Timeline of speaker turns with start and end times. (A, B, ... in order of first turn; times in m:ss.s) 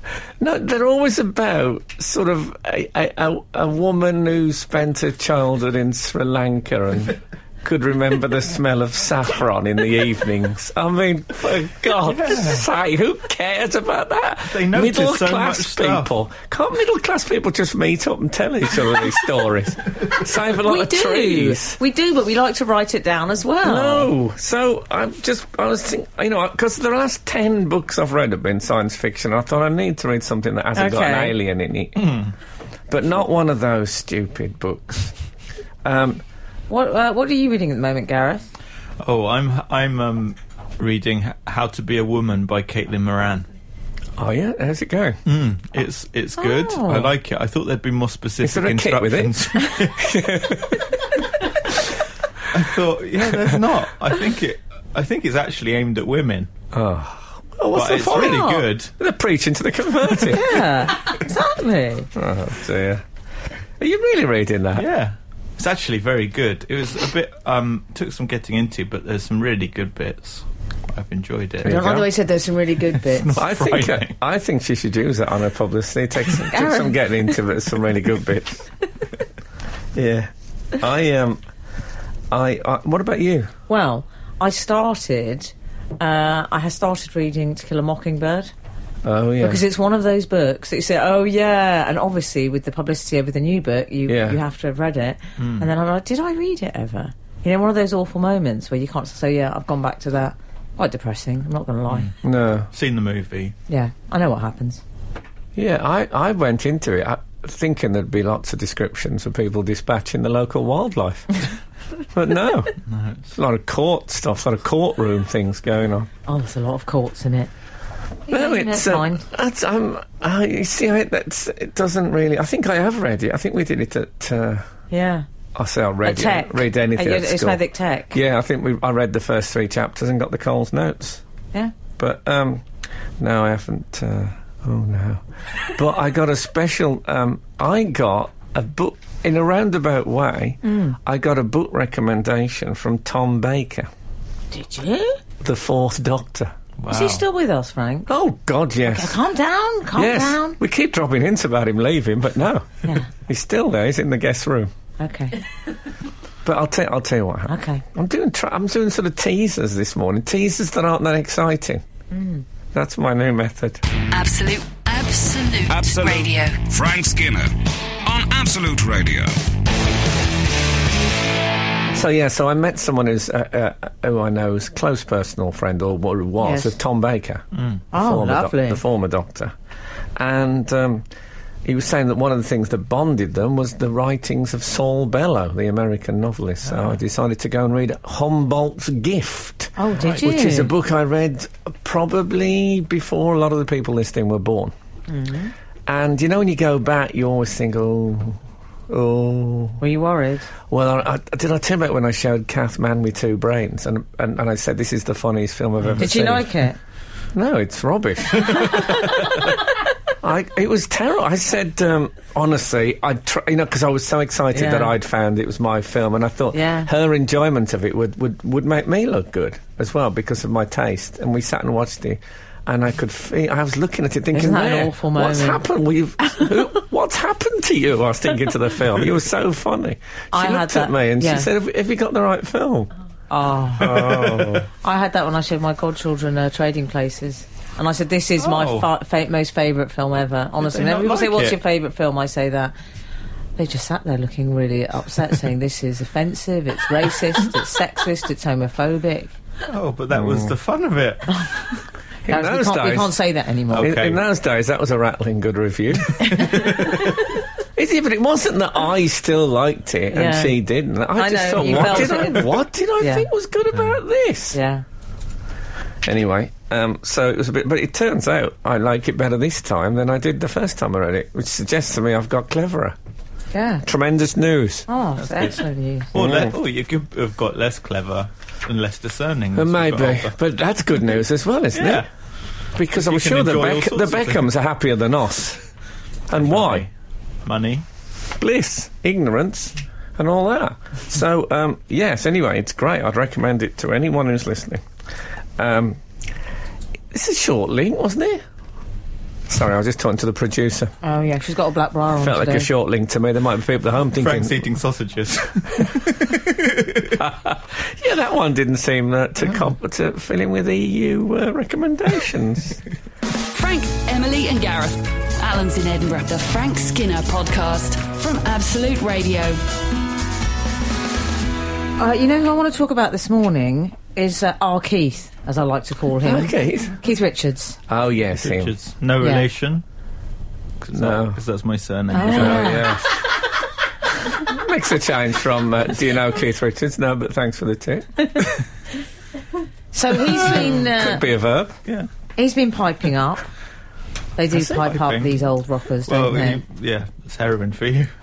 0:00.4-0:21.8 A
0:12.0-0:12.7 B
0:14.5-0:16.1 B
0:20.5-0:24.1 C
0:23.6-0:32.1 A
0:30.8-0:31.4 C
0:32.0-0:32.3 B
0:32.9-0:35.1 A
0:35.8-0:36.2 A
0:36.7-0:38.5 C
0:39.0-0:43.5 B
0:44.2-0:45.2 A
0:45.3-0:50.2 B
0:46.4-0:47.1 C
0:48.4-0:50.9 A
0:52.5-0:56.5 B
0:53.3-0:53.6 A
0:56.7-1:00.6 A
0:57.7-0:58.9 B
1:00.3-1:02.1 C
1:02.2-1:03.0 A
1:03.8-1:04.9 A
1:04.8-1:11.8 B
1:11.6-1:12.1 A
1:11.6-1:13.4 C
1:13.0-1:14.1 B
1:13.4-1:18.7 A
1:16.5-1:16.9 C
1:20.0-1:20.3 B
1:20.8-1:21.4 A
1:22.3-1:23.5 A
1:23.7-1:28.5 C
1:29.0-1:29.6 A
1:29.4-1:42.1 C
1:34.1-1:34.4 A
1:35.4-1:35.7 B
1:42.2-1:42.7 A
1:42.7-1:43.6 B
1:43.7-1:44.8 C
1:45.6-1:51.4 A
1:52.1-1:52.8 A
1:52.9-1:53.2 B
1:53.4-1:56.1 A
1:56.3-1:57.5 C
1:58.3-1:59.2 C
1:58.3-2:04.6 A
2:04.9-2:05.3 C
2:05.6-2:11.2 A
2:06.0-2:08.2 C
2:12.0-2:12.6 A
2:13.2-2:23.9 A
2:20.6-2:21.0 C
2:24.5-2:25.2 C
2:25.4-2:26.5 A
2:26.8-2:27.2 B
2:26.9-2:28.1 C
2:28.1-2:29.2 A
2:28.8-2:30.6 C
2:30.0-2:34.7 A
2:35.0-2:35.4 C
2:36.4-2:41.8 A
2:37.5-2:37.8 C
2:42.1-2:42.4 C
2:42.7-2:43.8 A
2:44.1-2:46.6 D
2:45.7-2:49.4 E
2:51.9-2:59.5 A
2:56.4-2:56.8 C
2:57.6-2:57.8 B
2:57.9-2:58.8 C
3:00.2-3:01.0 A
3:01.7-3:14.7 A
3:06.7-3:06.9 B
3:09.8-3:10.7 C
3:10.0-3:10.3 B
3:15.1-3:15.5 C
3:15.9-3:19.8 A
3:19.8-3:20.5 C
3:20.7-3:26.5 A
3:26.0-3:26.8 C
3:27.3-3:29.6 A
3:30.2-3:52.9 A
3:34.5-3:34.9 C
3:36.5-3:36.9 C
3:44.3-3:45.6 C
3:50.3-3:51.5 C
3:53.3-3:54.2 C
3:53.8-3:54.7 A
3:53.9-3:54.6 B
3:54.7-4:02.7 C
3:58.4-3:58.9 B
4:00.6-4:01.6 B
4:03.6-4:09.3 C
4:09.7-4:11.6 B
4:10.1-4:10.5 A
4:12.3-4:13.2 A
4:12.3-4:13.9 C
4:13.7-4:14.2 B
4:13.8-4:24.6 A
4:16.2-4:17.3 C
4:20.1-4:20.6 C
4:21.2-4:23.3 C
4:24.5-4:24.8 C
4:26.0-4:33.0 A
4:33.5-4:33.8 C
4:33.8-4:34.9 A
4:34.9-4:36.1 C
4:35.2-4:35.6 B
4:36.1-4:40.3 B
4:36.1-4:36.6 A
4:39.6-4:42.1 A
4:41.7-4:42.1 B
4:42.8-4:45.6 A
4:42.9-4:44.4 B
4:46.3-4:46.9 A
4:46.3-4:46.9 B
4:47.5-4:47.8 B
4:48.4-4:54.8 A
4:55.6-4:56.0 A
4:57.1-4:58.4 A
4:59.5-5:00.9 A
5:01.0-5:02.7 C
5:02.2-5:04.7 A
5:04.1-5:07.1 B
5:07.2-5:12.8 A
5:13.4-5:19.6 D
5:22.0-5:27.8 C
5:26.2-5:27.0 A
5:27.9-5:28.7 A
5:28.4-5:29.8 B
5:29.2-5:29.5 C
5:30.8-5:32.9 B
5:30.9-5:31.4 A
5:32.1-5:32.9 C
5:32.3-5:33.2 A
5:34.4-5:38.4 A
5:39.9-5:41.2 C
5:40.3-5:41.8 A
5:42.4-5:43.5 C
5:44.4-5:46.6 C
5:44.5-5:45.4 B
5:46.1-5:48.1 B